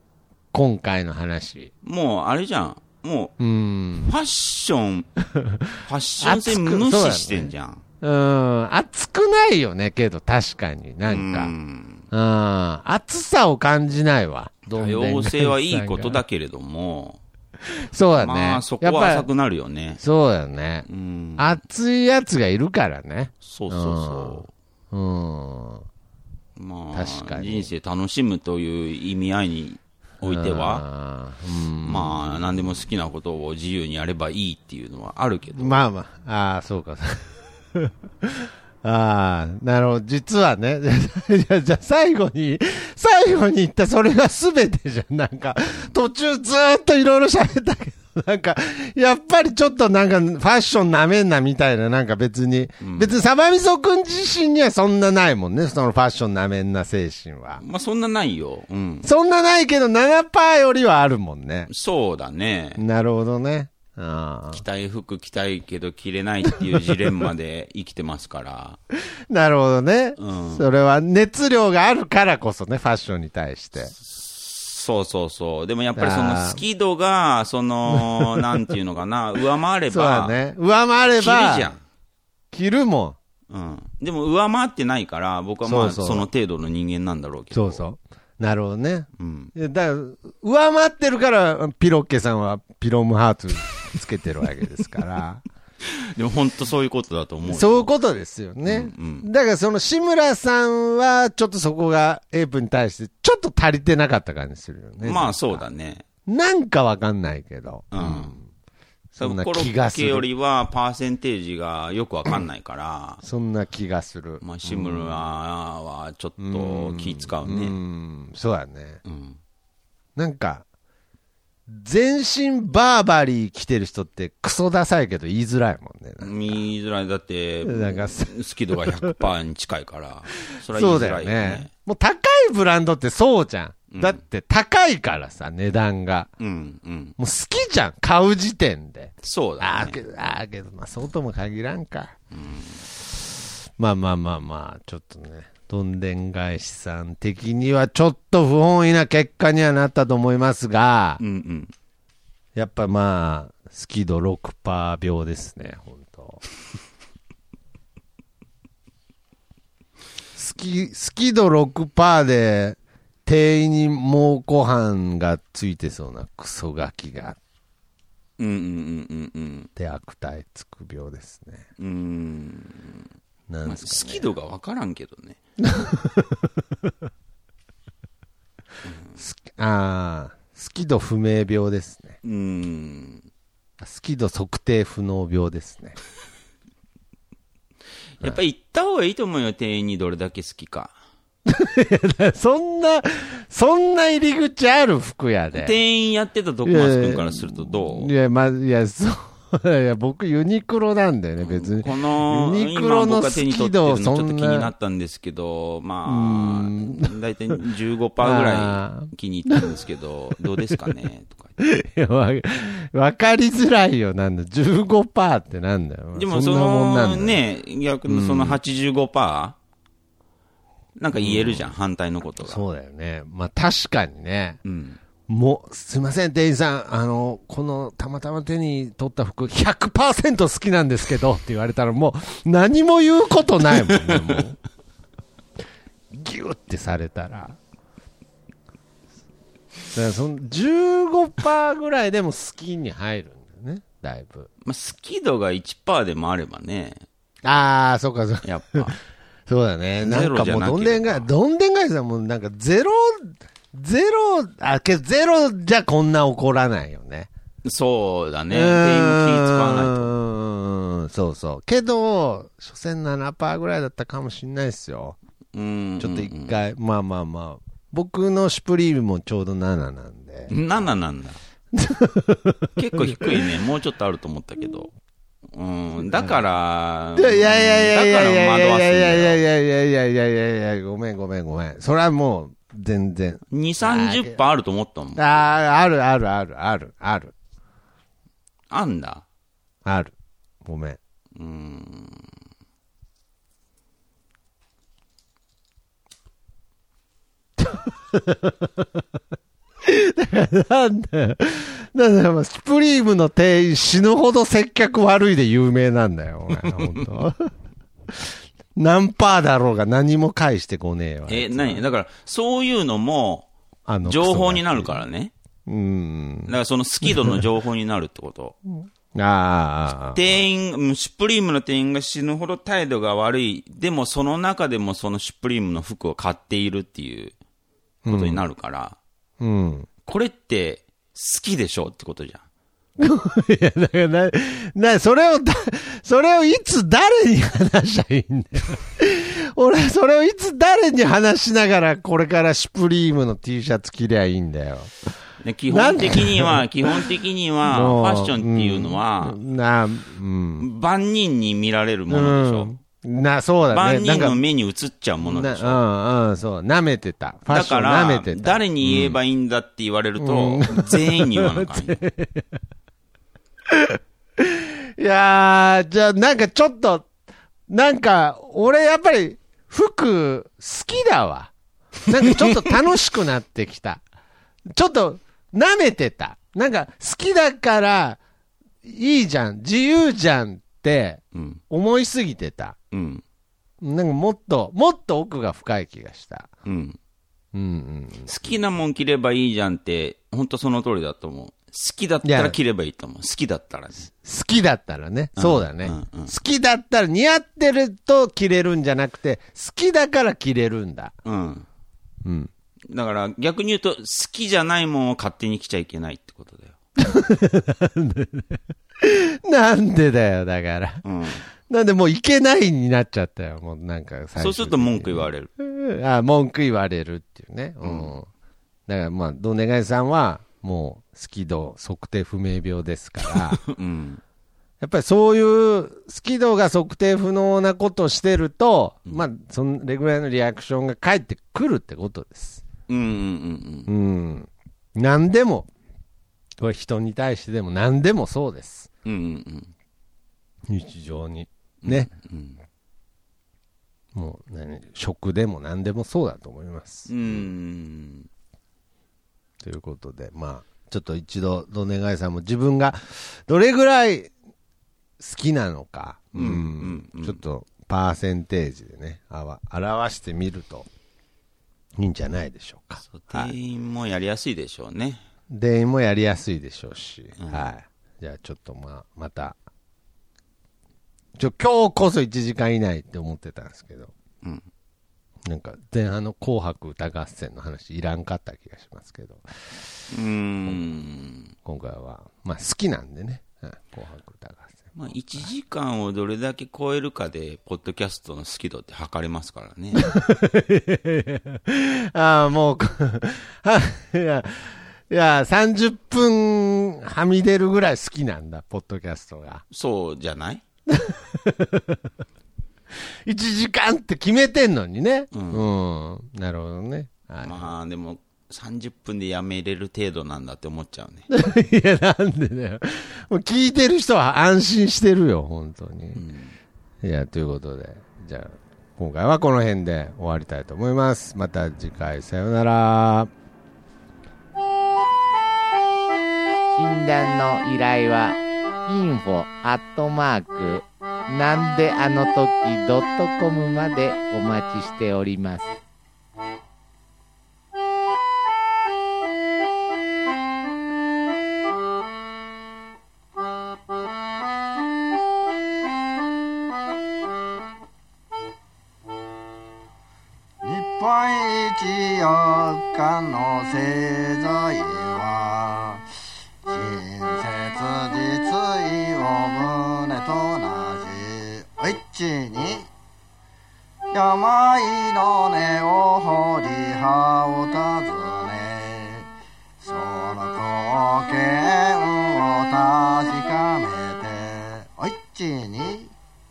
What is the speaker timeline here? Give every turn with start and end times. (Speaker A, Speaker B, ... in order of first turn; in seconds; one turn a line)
Speaker A: 0.5-1.7
Speaker B: 1.8-3.3
Speaker A: 3.4-4.1
Speaker B: 4.0-5.1
Speaker A: 5.3-11.5
Speaker B: 5.8-7.8
Speaker B: 11.1-12.0
Speaker A: 12.1-16.2
Speaker B: 14.7-17.2
Speaker A: 17.7-19.3
Speaker B: 18.2-20.0
Speaker A: 20.0-20.9
Speaker B: 20.9-21.6
Speaker A: 21.4-25.9
Speaker B: 23.4-24.5
Speaker B: 26.6-30.8
Speaker A: 26.9-27.7
Speaker A: 30.2-32.4
Speaker B: 31.8-35.8
Speaker A: 35.5-57.6
Speaker B: 52.8-53.1
Speaker B: 57.6-59.1
Speaker A: 59.0-61.7
Speaker B: 61.7-62.8
Speaker A: 62.8-64.6
Speaker B: 64.5-68.8
Speaker A: 69.3-73.9
Speaker B: 70.2-70.6
Speaker B: 73.9-80.3
Speaker A: 76.0-76.6
Speaker A: 77.9-78.7
Speaker A: 79.9-81.7
Speaker B: 81.1-81.8
Speaker A: 82.5-83.2
Speaker B: 83.5-87.8
Speaker A: 85.6-86.3
Speaker A: 87.5-95.4
Speaker B: 89.2-89.5
Speaker B: 95.8-97.9
Speaker A: 97.5-105.6
Speaker B: 98.7-99.3
Speaker B: 105.0-106.0
Speaker A: 106.2-108.5
Speaker B: 107.9-108.3
Speaker A: 109.2-110.2
Speaker B: 109.2-113.2
Speaker A: 113.2-115.2
Speaker B: 114.4-117.8
Speaker A: 116.4-119.0
Speaker B: 119.0-119.4
Speaker A: 120.2-120.6
Speaker A: 121.7-126.6
Speaker B: 126.2-131.7
Speaker A: 127.6-129.1
Speaker A: 130.5-136.3
Speaker B: 133.9-134.2
Speaker B: 136.4-137.1
Speaker A: 137.2-142.1
Speaker B: 139.2-140.0
Speaker B: 142.3-142.8
Speaker A: 143.8-151.2
Speaker B: 151.2-151.7
Speaker A: 152.6-156.4
Speaker A: 160.3-167.4
Speaker B: 168.4-169.7
Speaker A: 169.8-171.6
Speaker B: 171.8-173.0
Speaker A: 173.5-174.2
Speaker B: 173.7-175.4
Speaker A: 175.6-176.3
Speaker A: 179.2-182.2
Speaker B: 182.2-183.2
Speaker A: 183.8-186.0
Speaker B: 188.2-190.9
Speaker A: 191.5-195.8
Speaker B: 195.5-198.1
Speaker A: 196.7-204.7
Speaker B: 201.4-211.5
Speaker A: 206.1-207.1
Speaker A: 208.2-209.8
Speaker A: 210.4-210.9
Speaker A: 211.6-217.4
Speaker B: 216.1-219.6
Speaker A: 218.1-218.6
Speaker B: 220.9-222.6
Speaker A: 221.2-221.7
Speaker A: 222.4-224.6
Speaker B: 224.6-225.0
Speaker A: 225.3-234.6
Speaker B: 233.9-234.4
Speaker A: 236.1-237.6
Speaker A: 239.9-244.5
Speaker B: 244.6-247.0
Speaker A: 247.4-248.9
Speaker B: 248.4-248.9
Speaker A: 249.5-257.3
Speaker B: 250.0-251.3
Speaker B: 257.6-260.1
Speaker A: 258.5-265.2
Speaker B: 265.5-266.6
Speaker A: 266.0-270.6
Speaker B: 270.5-271.4
Speaker A: 271.7-273.4
Speaker B: 272.8-274.9
Speaker B: 275.5-279.4
Speaker A: 276.1-276.4
Speaker A: 277.1-284.4
Speaker B: 283.5-285.5
Speaker A: 285.1-287.3
Speaker B: 288.7-289.2
Speaker A: 289.8-290.1
Speaker A: 290.6-291.0
Speaker B: 291.3-292.3
Speaker A: 297.6-298.7
Speaker A: 299.8-307.5
Speaker B: 306.5-307.1
Speaker A: 308.1-311.8
Speaker B: 311.3-313.5
Speaker A: 313.9-315.0
Speaker B: 314.0-315.3
Speaker A: 315.7-316.5
Speaker B: 316.5-318.6
Speaker A: 317.1-317.4
Speaker A: 318.7-320.2
Speaker B: 320.1-327.3
Speaker A: 328.0-328.5
Speaker B: 328.1-329.0
Speaker A: 329.4-329.9
Speaker B: 330.1-332.4
Speaker A: 333.0-344.9
Speaker B: 345.4-349.4
Speaker A: 345.7-347.0
Speaker A: 347.6-350.7
Speaker B: 350.6-352.7
Speaker A: 352.1-354.4
Speaker B: 353.7-355.8
Speaker A: 355.2-359.2
Speaker B: 357.5-362.0
Speaker A: 360.2-362.4
Speaker A: 363.7-367.1
Speaker A: 367.7-371.5
Speaker A: 372.1-374.0
Speaker B: 372.2-372.7
Speaker A: 374.7-378.2
Speaker A: 378.8-382.8
Speaker B: 381.3-381.6
Speaker B: 382.9-383.2
Speaker A: 383.8-386.5
Speaker B: 386.6-387.0
Speaker A: 387.5-388.3
Speaker B: 388.3-394.1
Speaker A: 392.2-392.6
Speaker A: 394.2-401.1
Speaker B: 395.4-396.3
Speaker B: 401.2-401.6
Speaker A: 402.2-402.5
Speaker B: 402.9-406.8
Speaker A: 407.0-411.0
Speaker B: 411.0-411.4
Speaker A: 411.7-418.3
Speaker B: 414.4-415.5
Speaker B: 417.8-418.1
Speaker A: 418.9-423.6
Speaker B: 423.3-424.2
Speaker A: 424.8-432.6
Speaker B: 432.9-433.9
Speaker A: 433.9-435.7
Speaker A: 436.6-438.9
Speaker B: 439.0-439.7
Speaker A: 440.7-442.1
Speaker B: 441.8-442.6
Speaker A: 444.1-447.5
Speaker B: 447.1-448.3
Speaker A: 449.6-454.3
Speaker A: 455.2-460.9
Speaker B: 456.3-457.4
Speaker A: 462.0-463.5
Speaker B: 463.1-465.2
Speaker A: 465.5-469.6
Speaker B: 467.4-467.7
Speaker A: 471.4-474.1
Speaker A: 475.4-479.5
Speaker B: 480.1-481.5
Speaker A: 481.6-485.0
Speaker B: 484.9-490.1
Speaker A: 489.9-499.6
Speaker B: 499.7-500.6
Speaker A: 500.9-501.9
Speaker A: 503.2-507.7
Speaker B: 505.3-505.6
Speaker B: 507.4-511.3
Speaker A: 511.3-516.2
Speaker B: 516.1-516.5
Speaker A: 517.0-523.3
Speaker C: 526.8-535.7
Speaker D: 550.6-556.0
Speaker D: 556.6-562.9
Speaker D: 564.1-569.3
Speaker D: 569.8-576.1